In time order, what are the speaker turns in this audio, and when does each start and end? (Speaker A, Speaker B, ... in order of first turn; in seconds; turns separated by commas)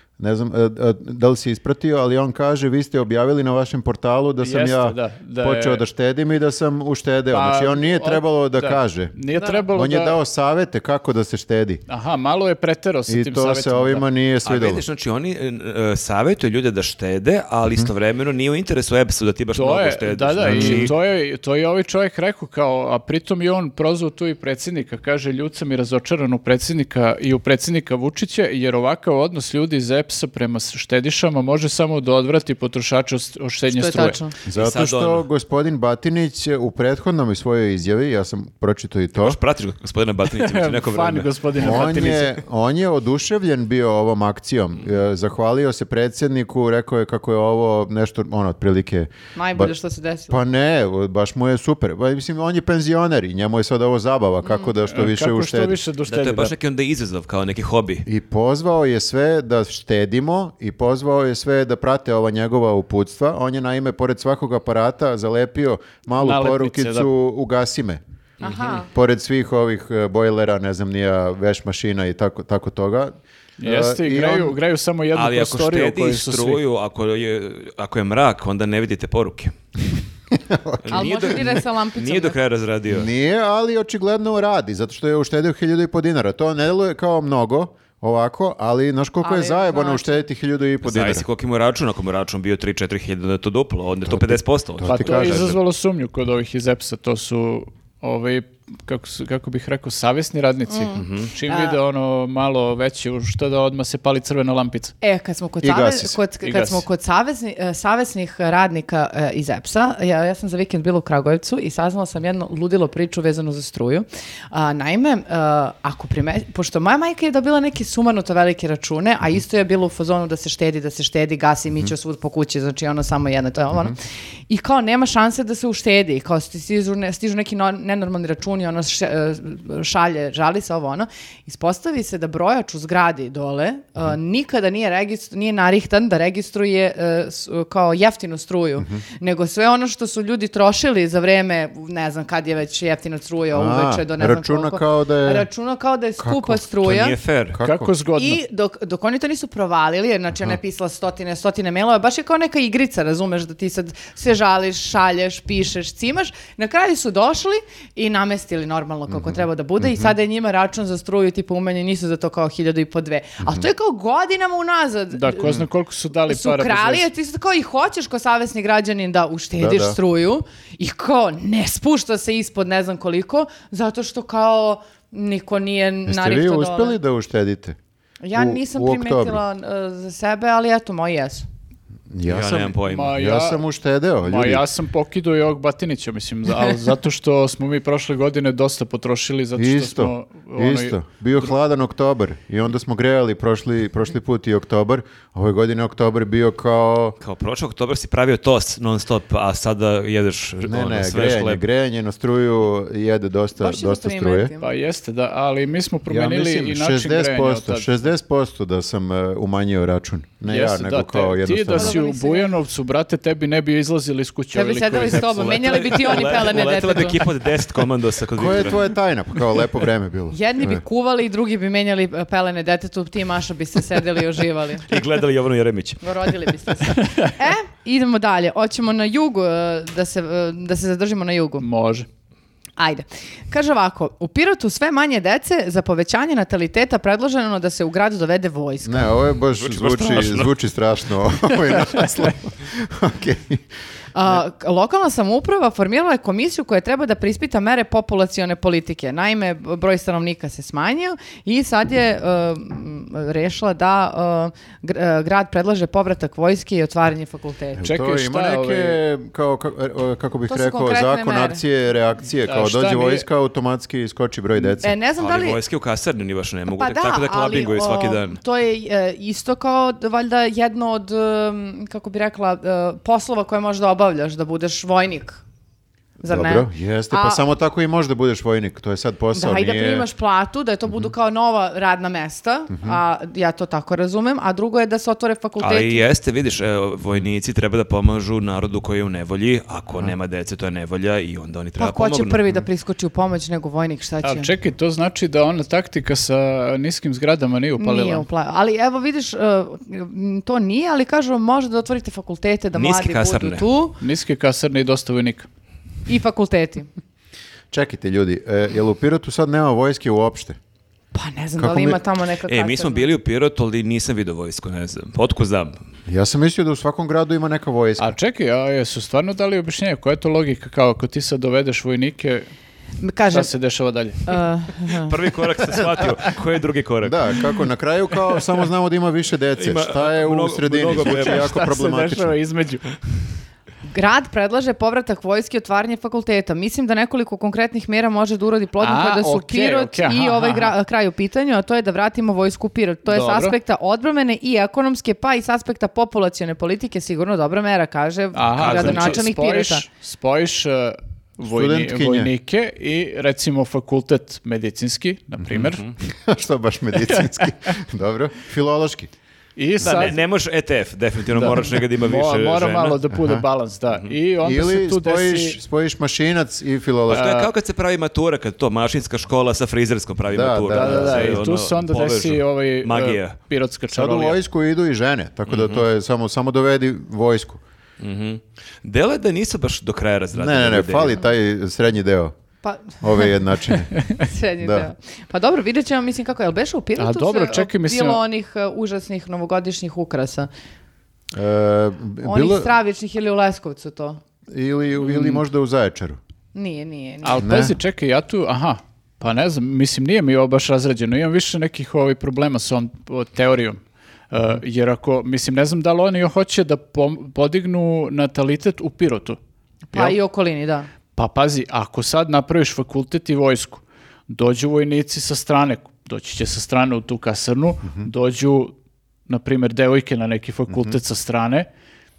Speaker A: 0.2-9.1, Speaker B: 4.4-5.8, Speaker B: 7.3-10.2, Speaker C: 9.3-9.6, Speaker A: 9.7-11.8, Speaker B: 11.9-14.0, Speaker A: 13.1-14.8, Speaker D: 14.4-20.9, Speaker B: 19.5-34.2, Speaker A: 20.4-20.9, Speaker C: 33.7-34.4, Speaker A: 34.4-39.4, Speaker D: 34.5-35.3, Speaker D: 39.2-41.8, Speaker B: 40.4-42.4, Speaker A: 41.6-49.7, Speaker C: 49.4-50.4, Speaker A: 50.3-55.8, Speaker C: 54.4-54.7, Speaker B: 54.9-56.5, Speaker D: 56.1-58.0, Speaker A: 58.0-68.0, Speaker B: 66.1-67.1, Speaker D: 68.4-68.7, Speaker C: 68.4-68.9, Speaker A: 68.7-74.6, Speaker B: 73.6-76.6, Speaker D: 75.1-79.5, Speaker A: 80.3-81.5, Speaker D: 80.8-83.1, Speaker C: 80.9-82.4, Speaker A: 82.9-91.3, Speaker C: 89.2-90.2, Speaker D: 90.8-95.5, Speaker A: 94.0-95.5, Speaker B: 94.9-104.9, Speaker C: 100.7-101.8, Speaker D: 100.9-101.3, Speaker C: 105.0-124.0, Speaker A: 105.6-106.2, Speaker B: 106.4-106.8, Speaker C: 124.5-147.1, Speaker A: 143.5-145.5, Speaker A: 146.2-147.9, Speaker D: 146.8-147.6, Speaker B: 147.6-148.4, Speaker C: 148.2-165.6, Speaker A: 159.1-160.1, Speaker B: 165.1-167.1, Speaker C: 166.3-176.9, Speaker A: 169.6-170.0, Speaker A: 176.1-177.8, Speaker C: 178.2-181.5, Speaker A: 178.3-179.4, Speaker A: 182.1-184.6, Speaker D: 182.2-183.1, Speaker B: 182.9-183.6, Speaker B: 184.2-191.0, Speaker A: 189.6-197.2, Speaker D: 197.2-201.6, Speaker A: 200.6-204.5, Speaker C: 203.6-204.7, Speaker B: 204.6-207.9, Speaker A: 206.1-212.0, Speaker B: 210.4-216.2, Speaker C: 211.7-212.5, Speaker C: 214.5-217.2, Speaker D: 215.3-218.8, Speaker A: 218.3-220.8, Speaker C: 220.3-224.8, Speaker D: 224.9-226.0, Speaker C: 226.0-231.7, Speaker B: 231.6-232.1, Speaker C: 232.8-239.1, Speaker A: 238.8-243.6, Speaker D: 239.6-240.5, Speaker C: 244.1-257.8, Speaker A: 257.8-264.9, Speaker B: 257.8-259.0, Speaker C: 260.5-261.6, Speaker B: 262.4-263.3, Speaker C: 264.8-265.6, Speaker D: 265.2-268.4, Speaker C: 266.7-275.4, Speaker C: 276.2-277.4, Speaker A: 276.2-280.1, Speaker C: 279.3-286.0, Speaker A: 282.7-283.0, Speaker D: 285.6-292.4, Speaker C: 291.8-294.5, Speaker B: 294.2-298.3, Speaker C: 297.8-304.0, Speaker D: 302.7-303.7, Speaker B: 304.0-305.5, Speaker C: 306.1-306.9, Speaker A: 307.7-310.6, Speaker C: 311.1-313.1, Speaker A: 311.6-312.0, Speaker D: 312.5-315.8, Speaker A: 316.1-318.1, Speaker B: 318.0-322.5, Speaker C: 323.0-323.5, Speaker B: 323.3-324.3, Speaker C: 324.3-325.1, Speaker D: 325.1-327.4, Speaker A: 327.0-332.4, Speaker D: 329.6-331.5, Speaker B: 330.9-332.9, Speaker C: 333.9-349.9, Speaker B: 338.8-340.7, Speaker B: 343.1-343.6, Speaker B: 348.3-355.8, Speaker D: 348.5-349.2, Speaker A: 351.4-352.3, Speaker D: 355.5-355.9, Speaker A: 356.0-359.1, Speaker B: 359.6-360.2, Speaker D: 359.8-363.0, Speaker B: 361.3-365.6, Speaker A: 363.1-363.4, Speaker A: 364.4-367.3, Speaker B: 367.1-367.5, Speaker D: 367.1-373.4, Speaker A: 370.3-371.4, Speaker B: 370.7-374.4, Speaker A: 373.9-377.6, Speaker D: 375.5-375.9, Speaker D: 378.0-381.2, Speaker A: 380.3-382.3, Speaker C: 382.6-383.2, Speaker A: 383.0-384.9, Speaker C: 384.2-390.5, Speaker B: 387.0-388.2, Speaker A: 391.3-392.8, Speaker C: 392.2-394.2, Speaker A: 394.5-396.2, Speaker B: 395.0-395.4, Speaker C: 396.5-397.5, Speaker B: 397.2-403.8, Speaker A: 397.4-397.7, Speaker B: 404.3-409.4, Speaker C: 409.9-410.9, Speaker B: 411.1-418.7, Speaker B: 419.3-421.7, Speaker A: 420.7-420.9